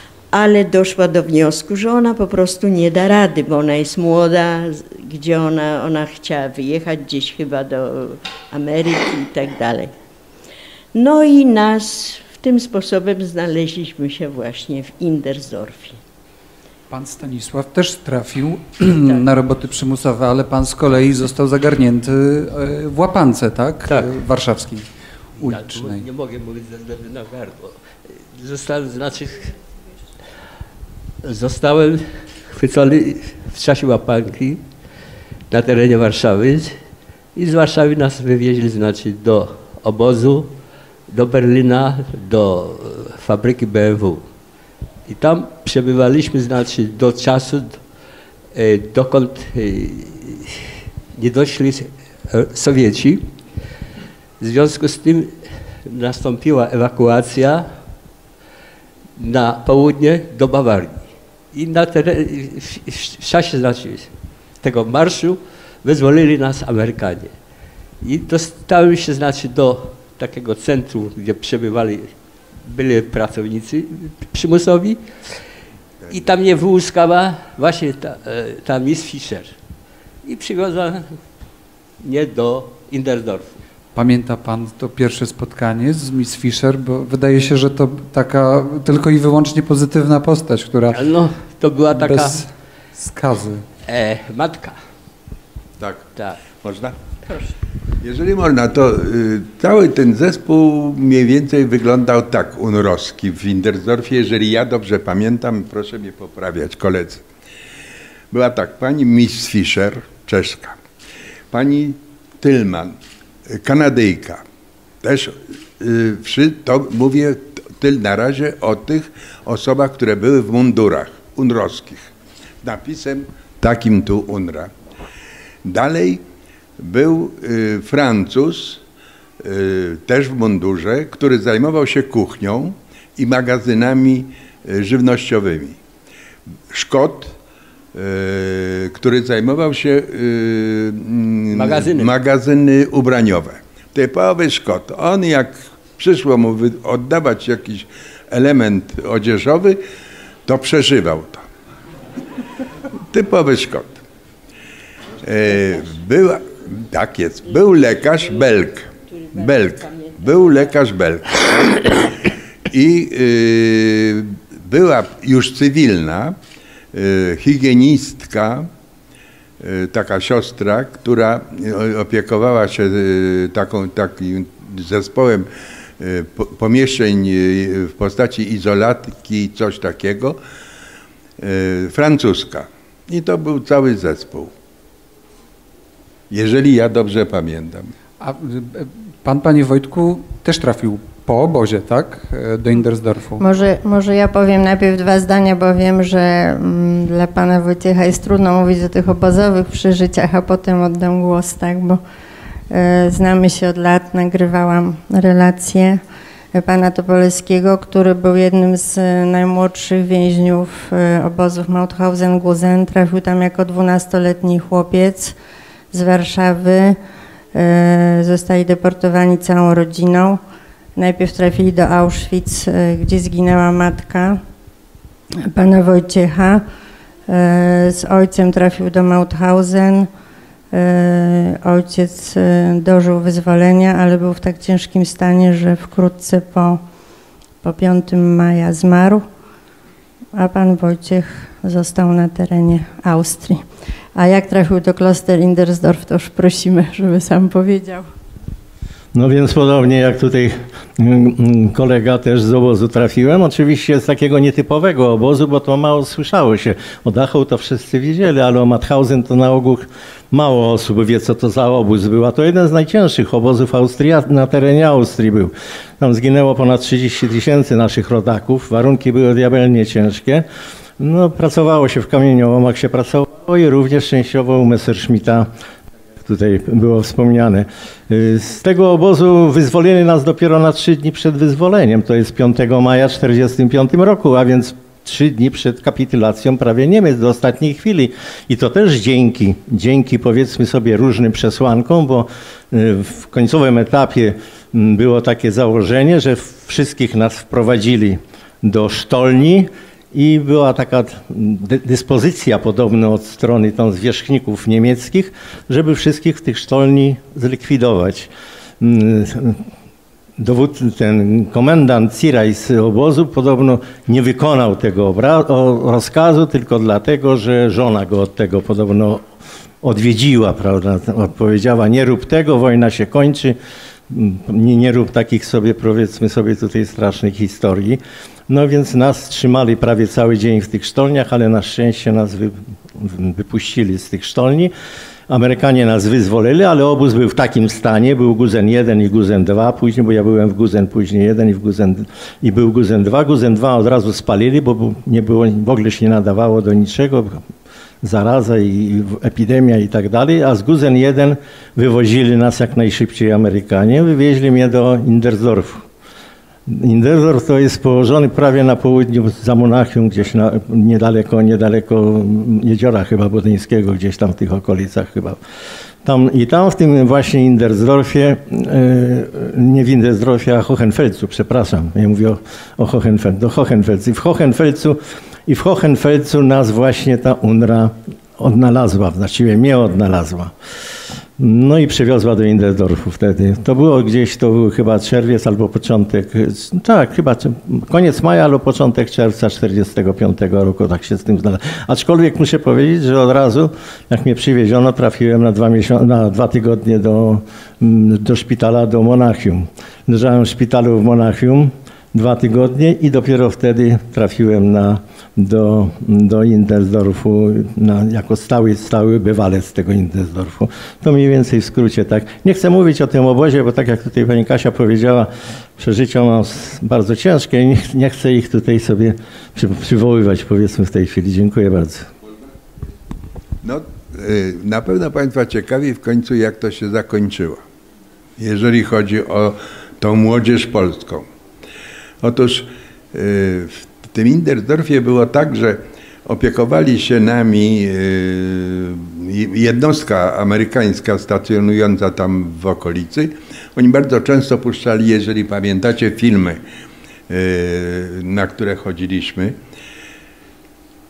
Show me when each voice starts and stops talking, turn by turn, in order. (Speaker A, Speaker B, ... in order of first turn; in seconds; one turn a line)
Speaker A: 0.3-9.9
Speaker A: 10.9-16.0
Speaker B: 16.9-24.9
Speaker A: 18.9-19.2
Speaker C: 23.9-24.1
Speaker C: 25.4-29.6
Speaker B: 25.4-26.1
Speaker C: 31.2-34.6
Speaker C: 35.5-36.8
Speaker C: 37.4-40.5
Speaker C: 41.1-44.2
Speaker C: 45.1-47.8
Speaker C: 48.5-53.3
Speaker C: 54.4-57.7
Speaker C: 59.2-67.3
Speaker C: 68.0-72.1
Speaker C: 72.6-75.0
Speaker C: 76.1-79.5
Speaker C: 80.2-81.1
Speaker C: 82.0-83.6
Speaker B: 84.0-91.0
Speaker C: 90.9-92.5
Speaker B: 91.9-93.7
Speaker C: 93.9-94.8
Speaker D: 95.8-97.0
Speaker A: 97.3-97.6
Speaker D: 98.0-107.2
Speaker D: 108.3-110.8
Speaker D: 111.5-113.0
Speaker D: 113.5-114.4
Speaker D: 115.0-122.1
Speaker D: 122.6-124.7
Speaker D: 125.6-126.2
Speaker D: 126.8-128.8
Speaker D: 129.4-135.8
Speaker D: 136.7-137.4
Speaker D: 137.9-149.8
Speaker C: 141.5-142.1
Speaker D: 150.5-151.5
Speaker D: 153.1-154.0
Speaker D: 155.2-166.4
Speaker A: 155.5-155.9
Speaker A: 157.5-160.8
Speaker D: 166.9-168.7
Speaker D: 169.6-180.4
Speaker D: 181.4-184.5
Speaker D: 186.3-187.9
Speaker B: 188.2-193.4
Speaker E: 193.4-202.0
Speaker E: 202.7-206.0
Speaker E: 206.5-215.4
Speaker E: 215.9-217.0
Speaker E: 217.5-220.4
Speaker E: 221.0-224.4
Speaker E: 225.4-226.6
Speaker E: 227.3-230.1
Speaker E: 230.7-236.8
Speaker E: 237.6-239.2
Speaker E: 240.3-243.7
Speaker E: 244.2-248.1
Speaker F: 249.1-270.4
Speaker F: 271.0-275.5
Speaker F: 276.2-309.6
Speaker F: 310.4-319.2
Speaker F: 319.8-323.6
Speaker F: 324.1-334.7
Speaker F: 335.3-347.4
Speaker F: 348.0-355.9
Speaker F: 356.7-365.4
Speaker F: 366.0-380.6
Speaker F: 381.4-422.1
Speaker D: 423.6-427.6
Speaker D: 428.4-431.2
Speaker D: 432.2-446.6
Speaker D: 447.3-449.6